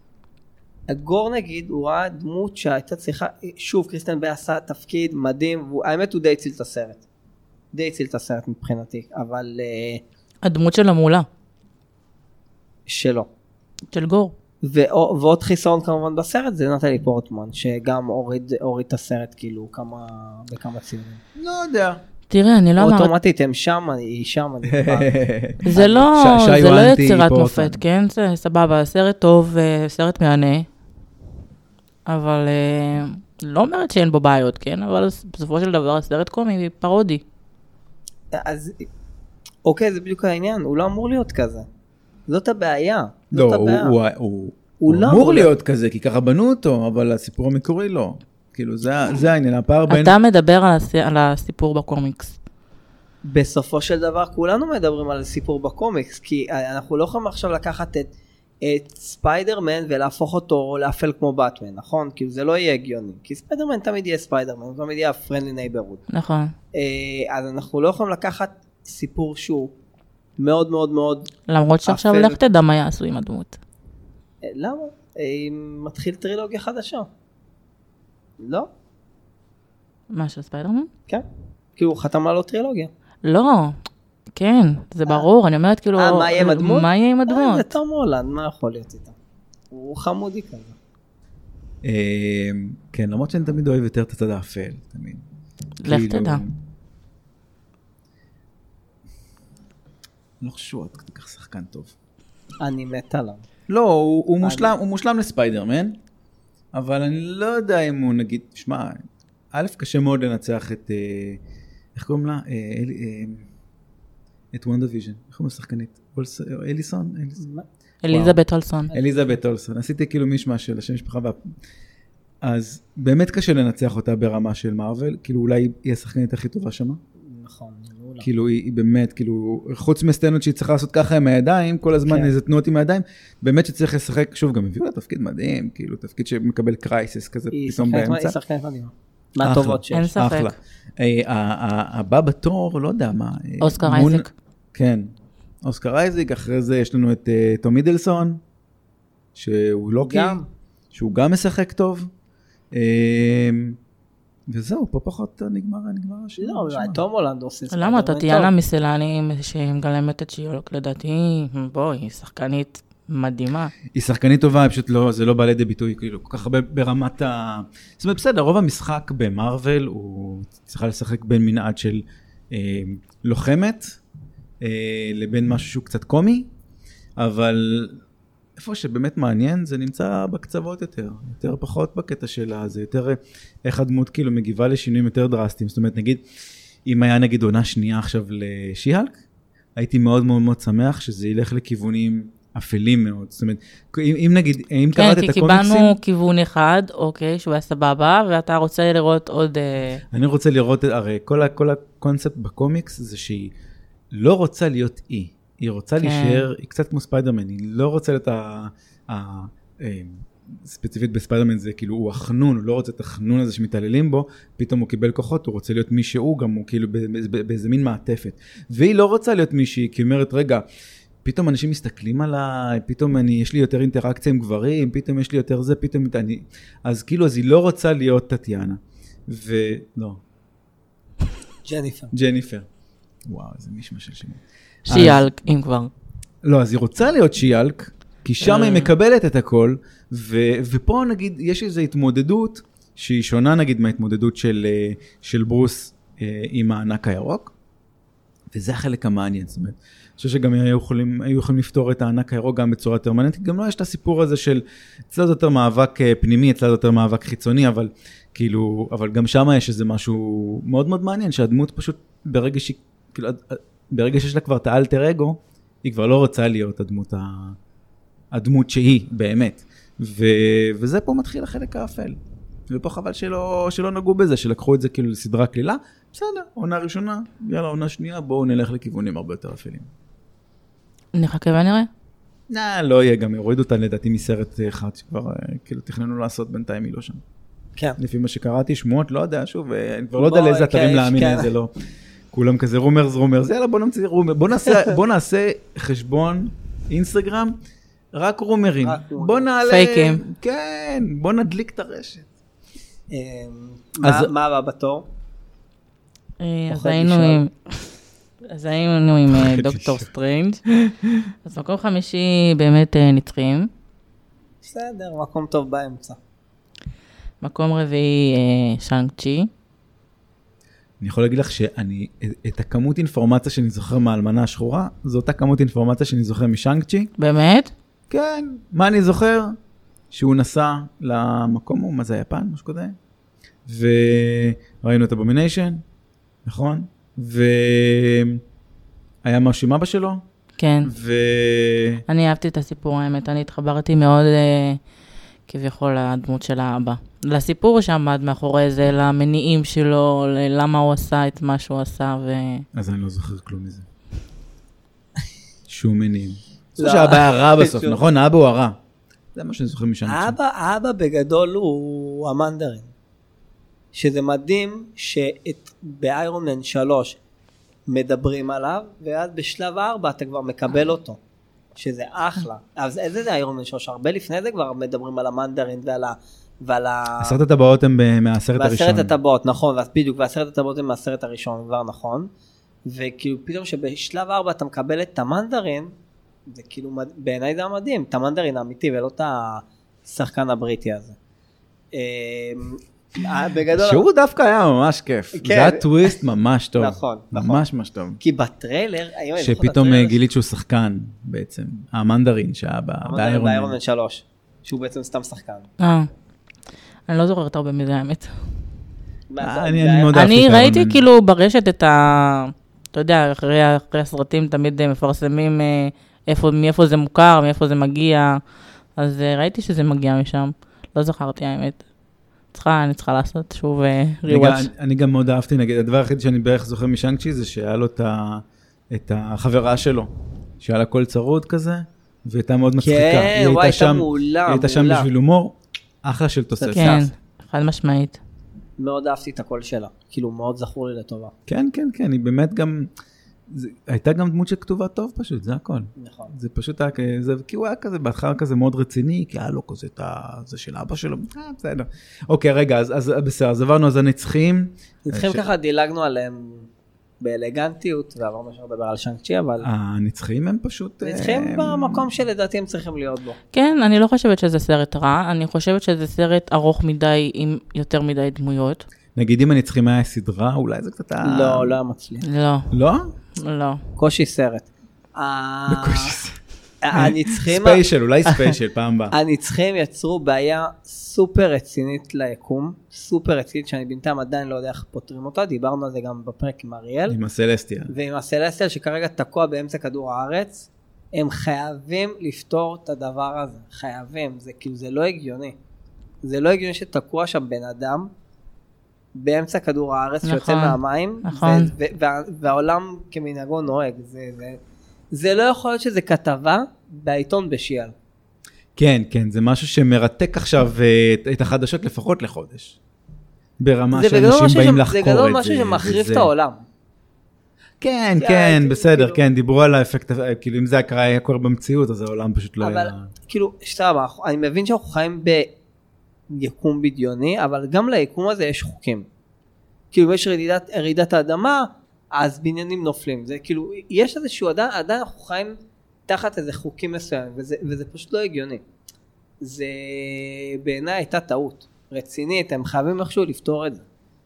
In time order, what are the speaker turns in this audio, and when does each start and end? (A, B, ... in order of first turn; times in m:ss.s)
0:00.9-0:07.0 A
0:07.7-0:10.0 A
0:10.4-0:11.3 B
0:12.9-0:13.3 A
0:13.9-0:14.3 B
0:14.6-0:21.2 A
0:21.4-0:22.0 C
0:22.3-0:23.1 B
0:22.8-0:25.2 A
0:24.7-0:27.8 C
0:25.6-0:30.7 B
0:25.7-0:26.0 A
0:32.0-0:37.2 B
0:38.3-0:38.9 A
0:39.6-0:41.7 A
0:42.3-0:44.0 A
0:43.3-0:50.1 C
0:44.8-0:45.5 A
0:49.9-0:52.4 B
0:53.2-0:58.1 A
0:58.6-1:06.0 A
1:06.1-1:06.5 B
1:06.7-1:09.7 A
1:10.4-1:11.3 A
1:11.5-1:13.6 B
1:11.8-1:12.4 A
1:14.4-1:17.1 A
1:18.4-1:18.7 A
1:20.1-1:20.9 B
1:21.8-1:22.9 A
1:23.2-1:23.8 B
1:24.3-1:27.7 B
1:26.0-1:29.2 A
1:29.7-1:30.8 A
1:31.8-1:35.2 C
1:35.8-1:36.4 B
1:35.8-1:36.5 C
1:40.4-1:41.9 C
1:42.6-1:43.4 A
1:43.7-1:46.0 C
1:44.4-1:44.7 A
1:46.7-1:51.4 C
1:51.9-1:53.4 C
1:54.5-1:57.4 C
1:57.4-1:57.6 A
1:58.0-1:58.9 B
1:58.1-1:58.4 C
1:58.9-1:59.3 A
1:58.9-2:01.4 C
2:02.4-2:07.0 C
2:07.2-2:08.3 A
2:08.2-2:18.4 C
2:12.0-2:12.3 A
2:17.5-2:20.1 A
2:19.4-2:25.1 C
2:19.9-2:20.5 B
2:23.6-2:24.3 B
2:25.6-2:28.4 C
2:29.3-2:30.4 C
2:30.0-2:30.5 A
2:30.9-2:32.1 C
2:32.7-2:33.8 C
2:34.5-2:37.0 C
2:36.4-2:38.5 A
2:37.7-2:43.7 B
2:43.9-2:54.0 C
2:54.6-2:56.5 C
2:57.2-2:58.0 C
2:58.6-3:06.2 C
3:06.8-3:09.2 C
3:09.8-3:16.0 C
3:15.0-3:20.0 B
3:20.1-3:23.5 C
3:24.1-3:40.6 C
3:26.0-3:26.5 B
3:41.2-3:50.2 C
3:51.6-3:52.1 A
3:52.1-3:52.6 C
3:53.2-3:55.3 C
3:54.9-3:55.9 B
3:56.4-4:07.5 C
3:58.4-3:58.9 B
4:08.5-4:27.6 C
4:28.3-4:32.2 C
4:32.7-4:39.9 C
4:41.1-4:41.9 B
4:42.5-4:47.2 C
4:48.0-4:51.7 C
4:50.2-4:51.5 A
4:52.3-4:57.6 C
4:58.1-5:02.3 C
4:58.8-4:59.5 A
4:59.6-5:00.2 B
5:03.1-5:05.0 A
5:04.0-5:04.3 C
5:06.4-5:07.8 B
5:06.7-5:07.4 A
5:08.5-5:10.6 B
5:09.3-5:10.1 C
5:11.4-5:13.7 B
5:14.6-5:16.2 A
5:17.4-5:19.5 B
5:21.0-5:27.1 C
5:27.2-5:27.7 B
5:28.1-5:29.6 C
5:30.1-5:33.0 C
5:33.6-5:35.8 C
5:36.4-5:38.4 C
5:39.2-5:40.2 C
5:40.6-5:40.9 B
5:40.8-5:42.0 C
5:42.1-5:44.8 B
5:45.5-5:52.6 B
5:52.7-5:53.8 C
5:55.7-5:58.8 C
5:56.8-5:58.0 A
5:59.3-6:00.4 C
6:00.0-6:02.9 A
6:03.9-6:07.2 A
6:07.9-6:11.2 A
6:11.8-6:17.4 A
6:17.2-6:19.1 C
6:18.6-6:22.3 A
6:22.8-6:25.9 A
6:26.5-6:31.2 A
6:31.9-6:34.0 A
6:33.7-6:38.2 C
6:35.3-6:36.1 A
6:36.8-6:37.6 A
6:38.2-6:40.2 A
6:39.4-6:43.8 C
6:43.0-6:45.7 A
6:45.8-6:46.1 B
6:47.1-6:48.3 B
6:49.3-6:50.2 A
6:49.4-6:51.0 C
6:50.1-6:58.4 B
6:59.0-7:01.8 B
7:02.5-7:04.7 B
7:04.3-7:10.1 C
7:10.6-7:17.0 C
7:12.8-7:15.1 A
7:16.6-7:17.1 A
7:16.7-7:18.2 B
7:18.8-7:21.3 A
7:21.5-7:22.9 C
7:23.5-7:35.5 C
7:26.0-7:26.3 A
7:35.0-7:36.7 A
7:37.2-7:39.7 A
7:39.6-7:42.1 C
7:41.0-7:43.4 A
7:43.5-7:48.8 B
7:49.1-7:51.8 C
7:51.2-7:52.2 A
7:52.2-7:52.7 B
7:52.7-7:53.1 C
7:53.4-7:53.8 B
7:54.0-7:56.2 A
7:55.7-7:56.4 C
7:56.8-7:58.5 A
7:56.9-7:59.1 C
7:59.1-8:07.2 A
8:07.1-8:07.9 C
8:07.9-8:15.6 A
8:16.2-8:18.1 A
8:19.1-8:24.6 A
8:20.2-8:21.7 B
8:25.1-8:27.9 A
8:28.8-8:32.8 C
8:33.6-8:36.3 C
8:33.9-8:36.6 A
8:37.8-8:43.1 C
8:38.2-8:39.2 A
8:42.6-8:45.5 A
8:46.3-8:49.0 A
8:49.9-8:55.6 A
8:56.1-8:58.6 A
8:59.4-9:03.8 A